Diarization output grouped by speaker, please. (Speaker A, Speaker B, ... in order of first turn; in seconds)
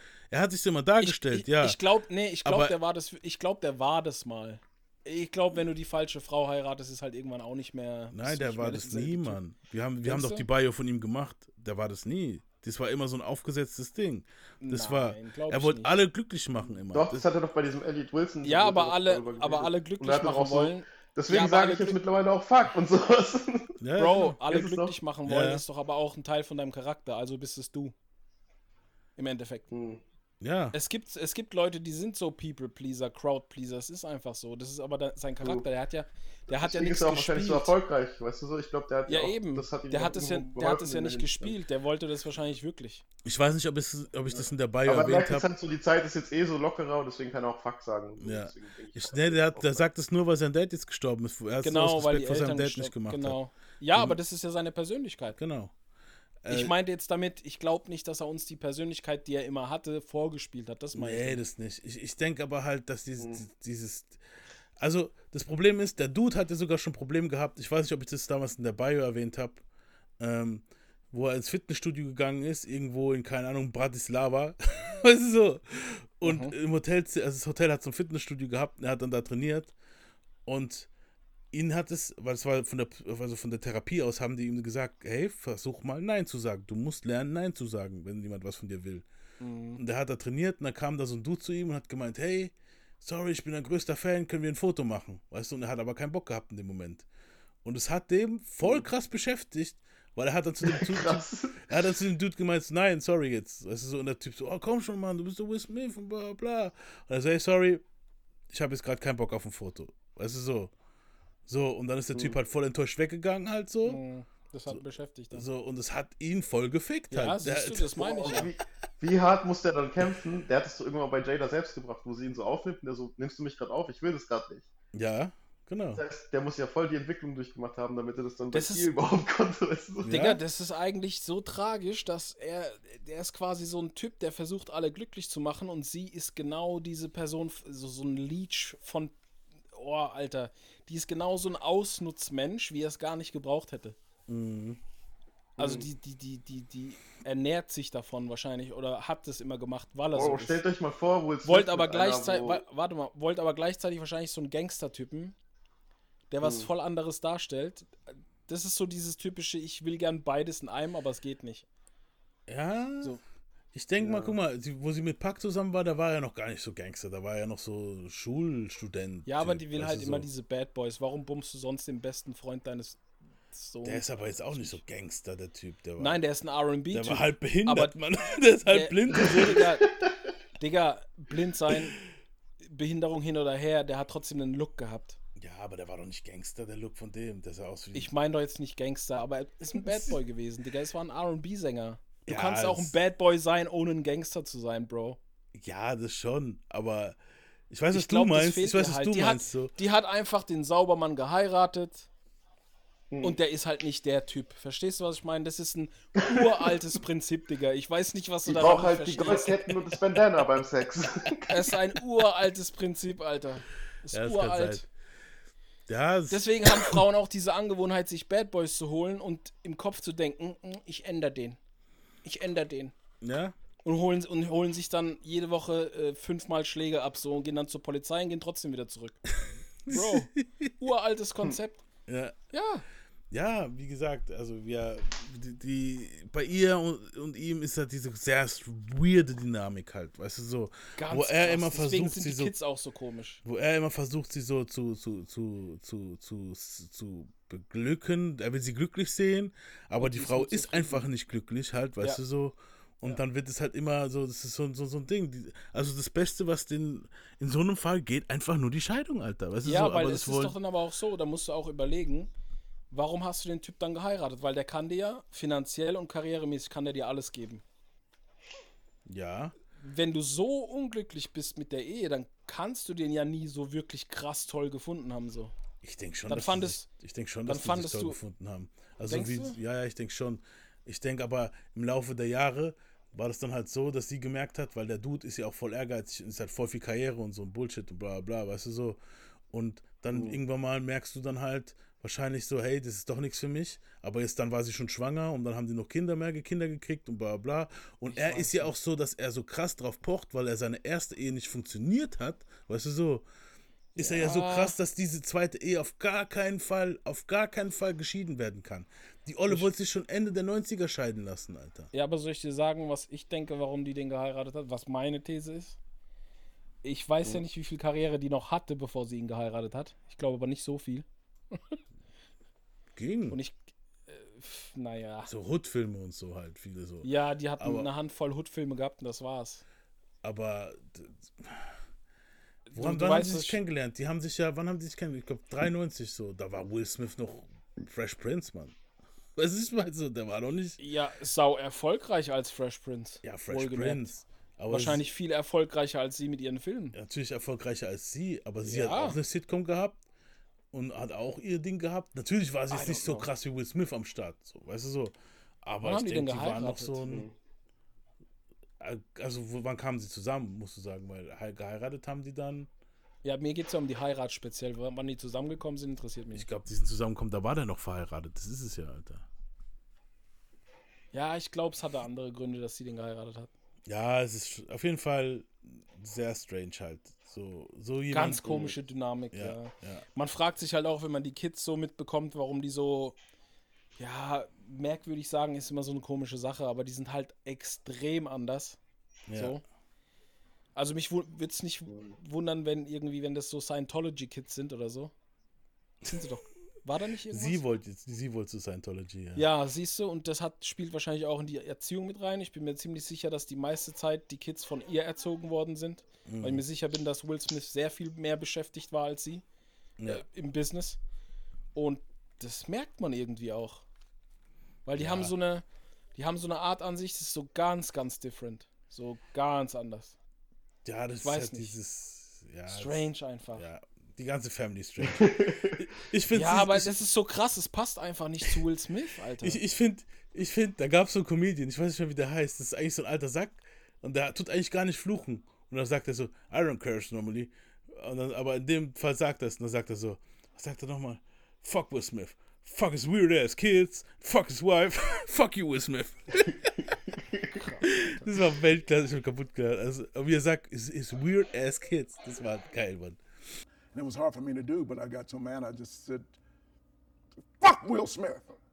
Speaker A: 0.3-1.8, 2.4-2.8, 8.1-17.2, 23.8-24.4, 25.2-25.6, 30.4-30.8, 43.2-45.5, 48.2-53.4, 55.4-55.7, 56.4-56.7, 60.9-64.2, 64.8-69.6, 70.2-79.7, 80.5-80.9, 81.5-89.0, 89.8-97.0, 97.6-107.8, 108.5-110.7, 111.5-114.0, 115.3-118.0, 124.9-126.0, 130.0-130.4, 144.3-144.8, 162.5-163.2, 163.7-170.3, 173.8-176.2, 176.9-179.7, 185.4-188.1, 192.2-192.9, 195.5-197.2, 197.7-199.7, 214.1-214.9, 215.9-217.0, 223.2-223.5, 229.8-230.7, 232.1-232.3, 233.3-242.5, 243.4-260.5, 269.1-269.6, 275.8-289.0, 289.5-303.2, 304.0-311.9, 322.9-323.4, 325.3-327.9, 330.2-331.7, 332.7-338.8, 339.4-340.8, 343.2-345.0, 346.9-350.0, 350.7-357.2, 358.8-362.7, 366.3-369.2, 373.9-378.8, 379.3-380.0, 389.3-389.6, 397.3-399.5, 406.3-406.6, 415.0-415.3, 420.8-427.0, 429.4-446.8, 447.9-453.2
Speaker B: 1.0-9.4, 10.0-10.4, 14.6-15.9, 18.4-22.0, 24.0-27.9, 29.2-29.7, 30.7-37.7, 39.1-43.0, 51.6-55.4, 56.5-61.4, 76.2-76.5, 89.4-89.8, 113.8-115.5, 117.1-118.5, 128.5-128.9, 130.0-139.1, 139.7-144.0, 145.6-150.6, 151.4-155.3, 156.3-161.7, 169.2-173.0, 173.5-174.8, 176.0-177.9, 178.7-179.8, 180.6-181.9, 182.6-185.2, 187.9-195.2, 197.9-202.1, 203.2-209.7, 211.5-214.8, 216.3-221.6, 222.2-222.9, 223.8-229.2, 229.9-231.8, 232.5-232.8, 241.0-243.4, 250.0-251.0, 259.6-262.3, 262.9-267.6, 269.8-275.5, 276.3-276.9, 277.5-278.2, 279.1-279.6, 298.1-298.7, 303.9-304.7, 311.9-315.8, 316.8-321.8, 323.3-325.3, 327.0-329.6, 332.7-333.6, 340.8-344.1, 344.7-346.9, 348.6-349.2, 352.7-353.3, 355.8-357.0, 363.2-366.5, 371.1-373.5, 378.1-383.1, 384.0-388.8, 389.3-389.6, 390.7-395.1, 396.0-397.6, 399.3-409.4, 410.1-411.0, 411.7-413.8, 414.9-415.6, 416.1-420.1, 421.2-421.7, 422.7-423.6, 426.3-429.6, 447.6-448.3
Speaker C: 16.9-23.7, 24.4-24.9, 29.7-30.0, 36.5-41.6, 44.3-49.8, 63.2-63.4, 100.6-101.7, 118.0-124.7, 125.9-130.1, 145.6-145.8, 150.1-152.6, 156.4-156.7, 164.0-164.3, 203.1-203.4, 206.3-206.7, 208.4-211.6, 290.1-290.4, 357.1-357.3, 425.0-425.8, 447.1-447.6
Speaker D: 453.9-456.3, 457.6-458.5